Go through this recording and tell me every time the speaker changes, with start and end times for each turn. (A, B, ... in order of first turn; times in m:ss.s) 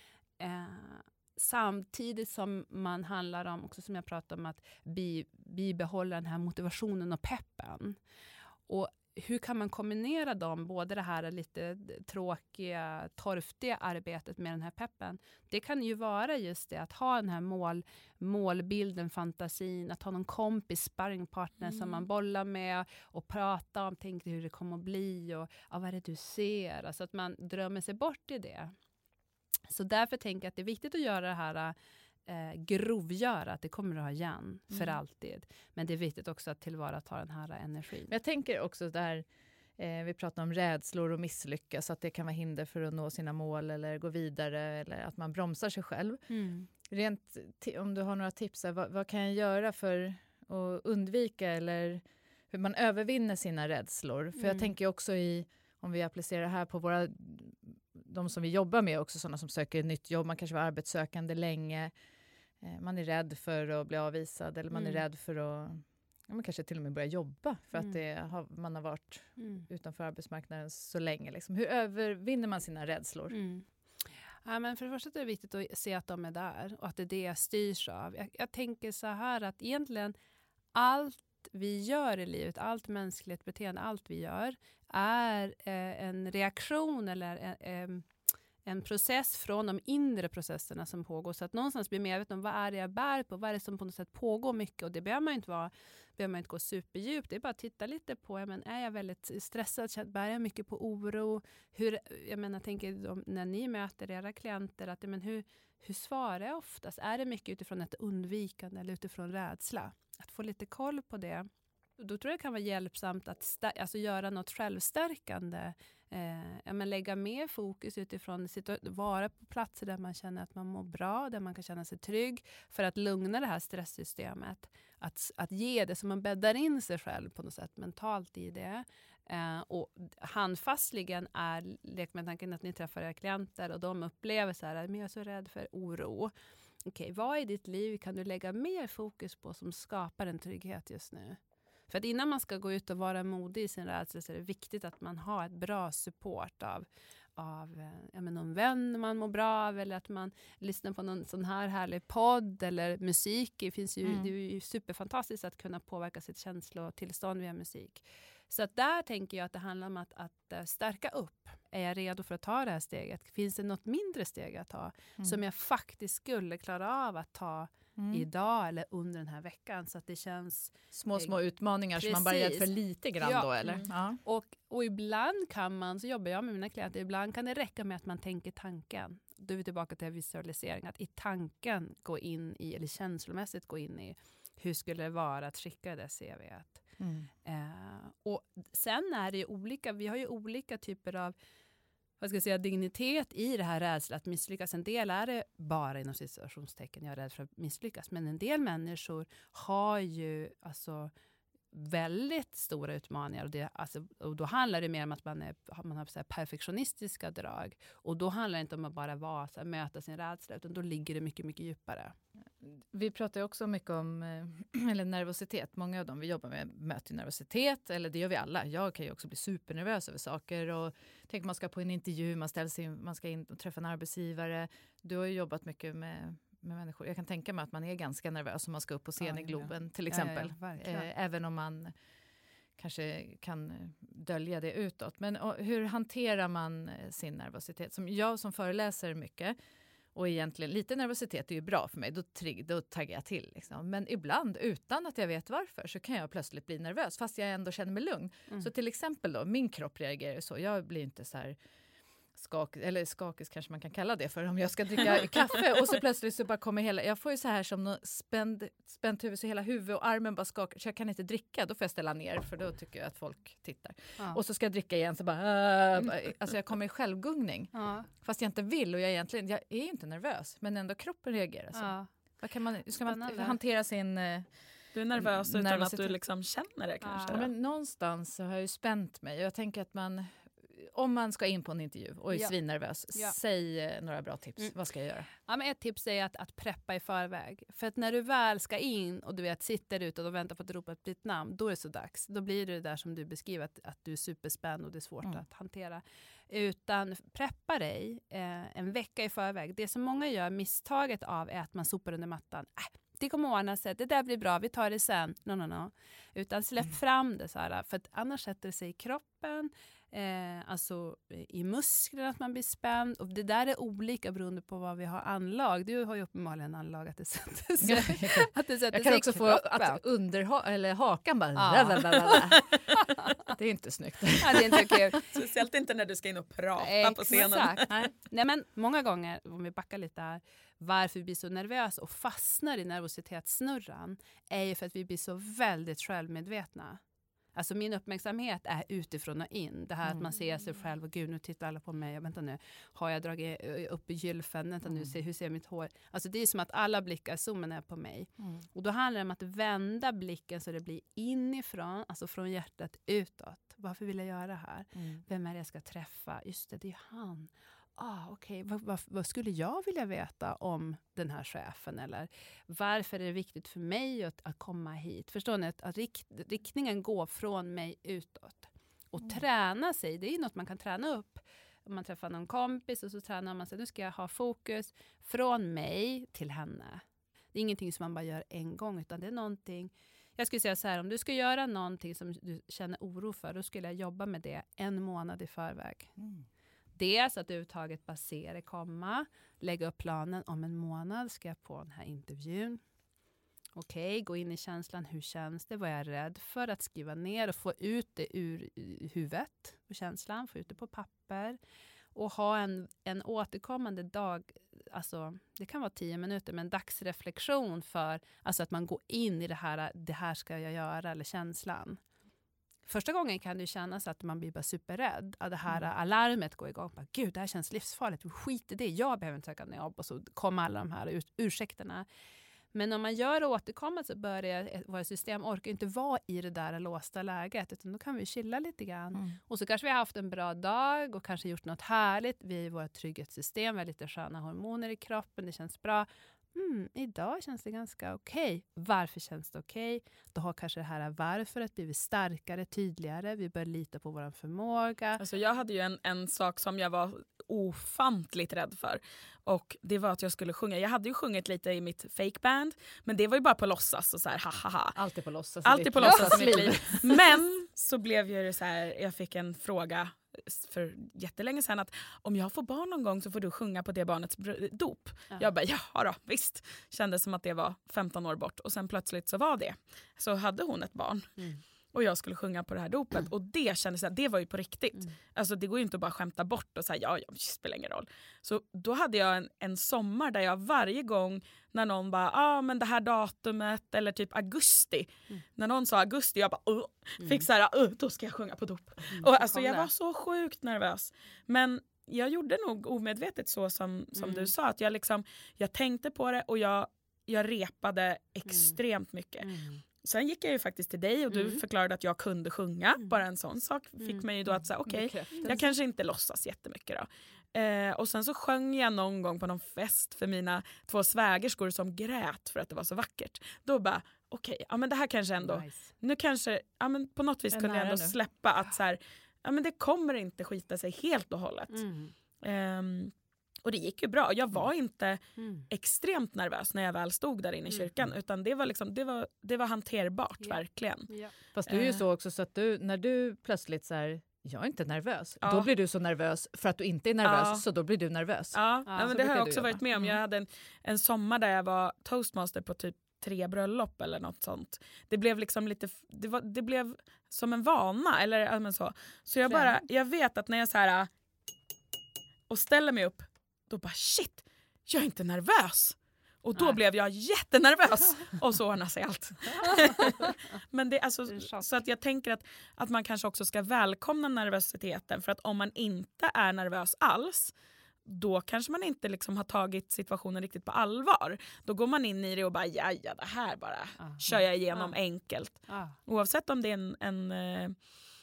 0:00.4-0:08.0 A
0:08.7-0:28.7 A
0:21.7-0:22.0 B
0:29.7-0:31.8 A
0:32.3-0:38.1 A
0:38.1-0:39.3 C
0:39.8-0:46.2 C
0:46.3-0:46.7 A
0:46.8-1:01.9 C
0:54.4-0:54.7 A
1:02.6-1:13.4 C
1:04.7-1:05.0 A
1:09.4-1:09.6 A
1:13.3-1:13.7 A
1:14.4-1:20.2 A
1:20.7-1:28.1 A
1:28.6-1:51.5 A
1:52.0-2:16.3 A
2:16.8-2:51.4 A
2:34.0-2:34.3 C
2:48.0-2:48.3 C
2:50.9-2:54.2 C
2:52.0-3:06.8 A
3:07.0-3:07.3 C
3:07.4-3:11.4 A
3:12.2-3:21.1 A
3:21.7-3:32.1 A
3:32.6-3:51.9 C
3:49.2-3:51.1 A
3:52.8-3:59.6 C
4:00.1-4:11.6 C
4:12.4-4:34.5 C
4:27.7-4:28.1 A
4:31.7-4:32.1 A
4:33.1-4:33.6 A
4:34.9-4:37.5 B
4:35.2-4:36.2 C
4:37.0-4:37.4 A
4:37.3-4:45.3 C
4:45.4-5:20.0 A
5:17.8-5:25.1 C
5:21.6-5:23.5 A
5:24.4-5:25.3 A
5:25.3-5:27.9 B
5:26.8-5:37.0 A
5:37.5-6:26.1 A
6:27.0-6:32.8 A
6:33.8-6:41.6 A
6:42.2-6:52.0 A
6:52.8-7:02.1 A
7:02.7-7:25.2 A
7:25.2-7:35.0 B
7:35.0-7:37.2 C
7:35.6-7:51.3 B
7:36.0-7:36.5 A
7:51.9-8:19.5 B
8:07.2-8:07.5 A
8:09.1-8:09.9 A
8:14.2-8:14.5 A
8:18.5-8:18.8 A
8:19.4-8:19.8 A
8:20.0-8:41.8 B
8:21.3-8:21.6 A
8:24.9-8:25.6 C
8:25.4-8:25.7 A
8:35.4-8:35.9 A
8:37.5-8:38.2 C
8:41.7-8:42.1 A
8:42.4-8:43.1 B
8:43.6-8:51.1 B
8:45.4-8:45.7 A
8:50.4-8:51.3 A
8:51.6-9:00.2 C
8:55.4-8:55.7 B
8:57.2-8:57.6 B
8:58.5-9:11.1 B
8:58.9-8:59.2 A
9:09.5-9:09.8 A
9:12.5-9:27.5 B
9:19.6-9:20.3 A
9:21.3-9:21.7 A
9:28.0-9:37.8 B
9:35.7-9:36.0 A